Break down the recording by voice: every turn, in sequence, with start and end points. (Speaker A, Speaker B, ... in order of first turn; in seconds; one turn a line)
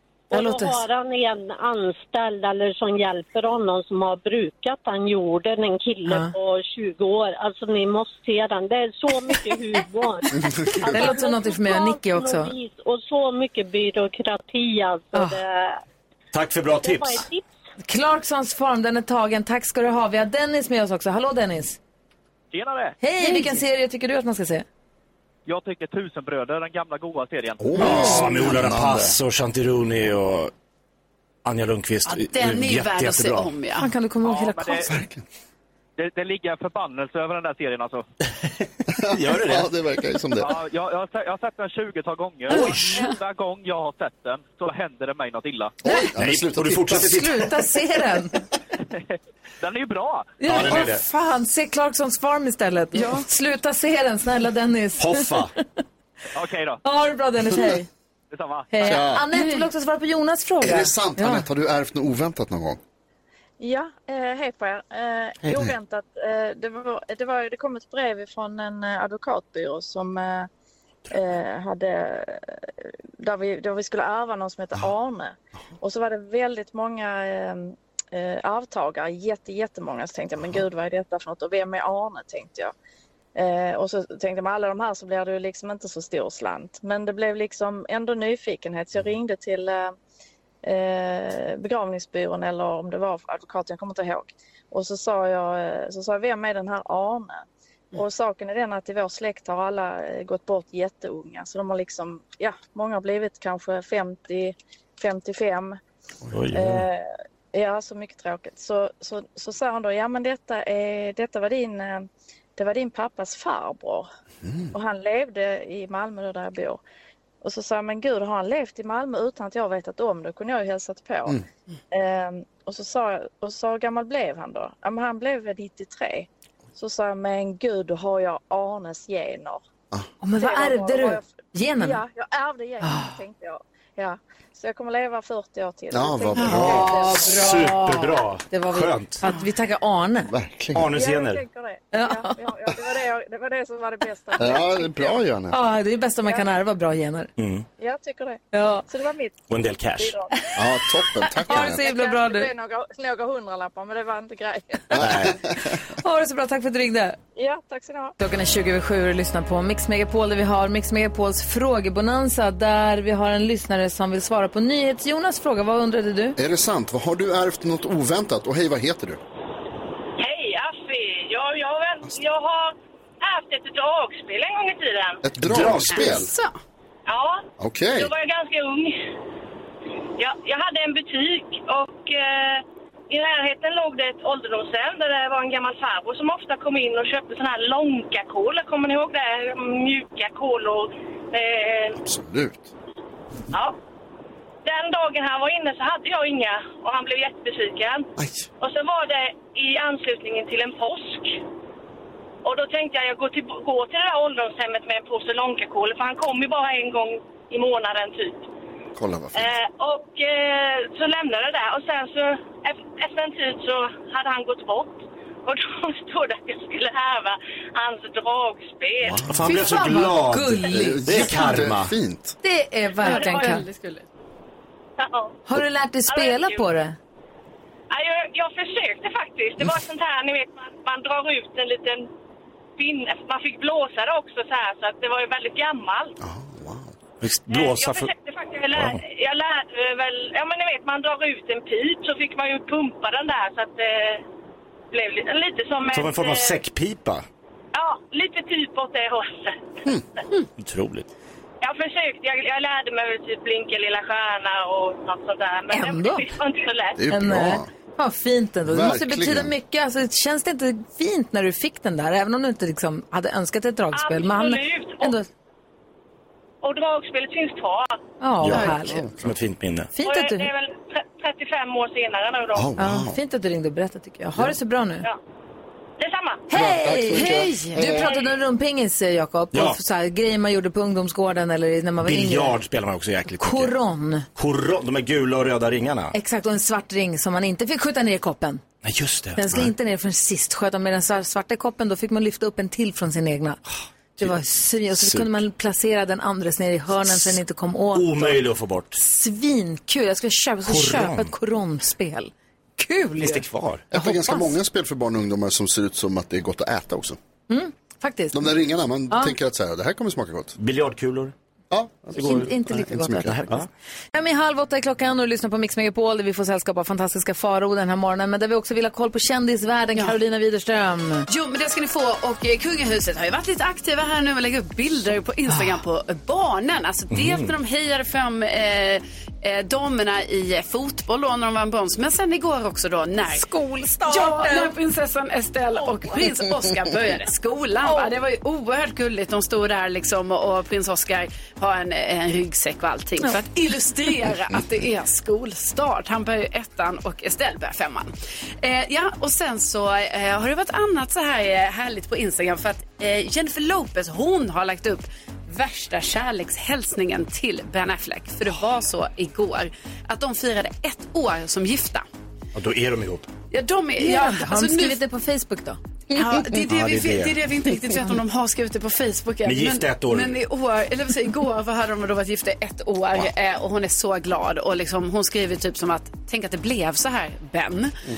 Speaker A: 0.3-15.8
Speaker B: 0.3-0.8
Speaker B: 6.1-6.3
Speaker B: 10.9-12.5
Speaker C: 16.3-17.2
Speaker A: 16.8-17.4
Speaker B: 17.8-21.8
Speaker D: 22.5-23.0
Speaker B: 23.0-24.6
Speaker E: 23.2-23.5
Speaker D: 25.5-27.8
Speaker F: 27.6-29.1
Speaker C: 27.7-30.5
Speaker B: 27.8-28.2
Speaker C: 31.4-33.5
Speaker E: 32.1-33.9
Speaker B: 33.8-34.9
Speaker D: 34.2-34.9
Speaker F: 34.8-35.2
Speaker D: 36.0-38.0
Speaker F: 39.0-40.5
Speaker C: 39.0-39.7
Speaker D: 40.4-45.8
Speaker C: 42.5-43.1
Speaker F: 45.8-47.1
Speaker C: 46.2-47.5
Speaker B: 47.0-48.4
Speaker D: 49.0-50.4
Speaker B: 50.4-55.4
Speaker C: 50.4-51.0
Speaker C: 55.0-55.5
Speaker D: 56.4-56.8
Speaker B: 56.8-57.9
Speaker D: 58.3-59.1
Speaker B: 58.7-61.5
Speaker F: 58.9-59.2
Speaker F: 60.6-62.8
Speaker G: 63.6-70.5
Speaker F: 65.5-65.7
Speaker G: 71.1-82.7
Speaker G: 83.3-89.9
Speaker G: 90.6-105.8
Speaker C: 106.3-106.9
Speaker G: 106.5-114.1
Speaker F: 114.4-114.7
Speaker G: 114.7-116.8
Speaker G: 117.4-129.6
Speaker B: 130.2-132.0
Speaker G: 130.4-137.2
Speaker B: 132.8-133.1
Speaker F: 135.9-137.1
Speaker B: 136.4-140.3
Speaker C: 136.6-139.2
Speaker F: 140.3-140.9
Speaker C: 140.7-141.4
Speaker G: 140.9-145.2
Speaker B: 141.9-142.4
Speaker F: 144.4-145.6
Speaker B: 145.5-147.3
Speaker C: 147.4-147.7
Speaker G: 147.8-150.3
Speaker B: 148.5-148.8
Speaker C: 149.5-150.2
Speaker F: 150.5-151.8
Speaker B: 151.2-152.5
Speaker G: 151.4-155.0
Speaker F: 154.9-155.8
Speaker C: 155.0-155.3
Speaker B: 155.9-157.2
Speaker G: 157.4-158.2
Speaker B: 158.2-166.4
Speaker F: 166.4-169.2
Speaker H: 170.2-175.2
Speaker F: 175.2-176.3
Speaker C: 175.4-176.3
Speaker E: 175.9-176.5
Speaker H: 177.1-179.0
Speaker F: 177.6-178.1
Speaker H: 180.2-192.0
Speaker F: 191.9-192.7
Speaker H: 194.6-201.4
Speaker F: 198.2-198.5
Speaker H: 202.4-208.5
Speaker F: 209.0-209.5
Speaker H: 209.3-219.3
Speaker F: 219.0-219.7
Speaker C: 219.3-221.9
Speaker B: 219.5-221.6
Speaker F: 220.7-222.4
Speaker B: 222.4-223.7
Speaker E: 223.0-224.0
Speaker H: 225.0-225.4
Speaker B: 225.5-227.0
Speaker H: 226.1-226.6
Speaker H: 227.9-232.1
Speaker H: 232.8-236.2
Speaker F: 236.2-236.9
Speaker C: 237.2-238.1
Speaker H: 237.5-244.2
Speaker C: 238.7-239.0
Speaker H: 244.9-246.6
Speaker C: 245.9-247.2
Speaker H: 247.7-249.6
Speaker C: 250.6-251.1
Speaker H: 251.6-257.0
Speaker B: 255.7-256.4
Speaker F: 257.0-257.7
Speaker B: 257.1-265.3
Speaker F: 258.7-259.5
Speaker H: 263.9-265.2
Speaker H: 266.6-268.0
Speaker B: 268.2-269.1
Speaker C: 268.4-269.9
Speaker F: 268.5-269.3
Speaker B: 269.9-270.5
Speaker H: 270.0-272.7
Speaker F: 272.5-273.2
Speaker B: 272.8-275.1
Speaker H: 276.0-276.4
Speaker B: 276.5-282.6
Speaker F: 276.5-278.1
Speaker E: 277.1-277.9
Speaker H: 277.9-278.2
Speaker C: 279.5-279.8
Speaker C: 282.0-283.7
Speaker B: 283.4-284.2
Speaker C: 284.4-286.1
Speaker B: 286.1-288.6
Speaker C: 288.8-289.7
Speaker B: 289.4-293.6
Speaker B: 294.2-298.4
Speaker C: 295.0-295.3
Speaker C: 297.9-299.0
Speaker B: 299.0-304.5
Speaker C: 300.6-301.3
Speaker C: 303.2-303.9
Speaker F: 303.9-307.2
Speaker B: 307.5-308.5
Speaker F: 308.3-310.6
Speaker B: 309.1-309.3
Speaker C: 310.6-311.3
Speaker F: 311.7-313.4
Speaker B: 312.1-321.3
Speaker E: 321.3-333.4
Speaker B: 325.5-325.8
Speaker C: 327.1-327.5
Speaker B: 333.3-334.7
Speaker E: 334.1-362.0
Speaker B: 335.8-336.3
Speaker B: 337.8-338.1
Speaker C: 362.5-363.3
Speaker E: 363.5-365.0
Speaker B: 364.0-365.8
Speaker E: 366.1-378.0
Speaker C: 366.5-367.4
Speaker C: 369.4-370.3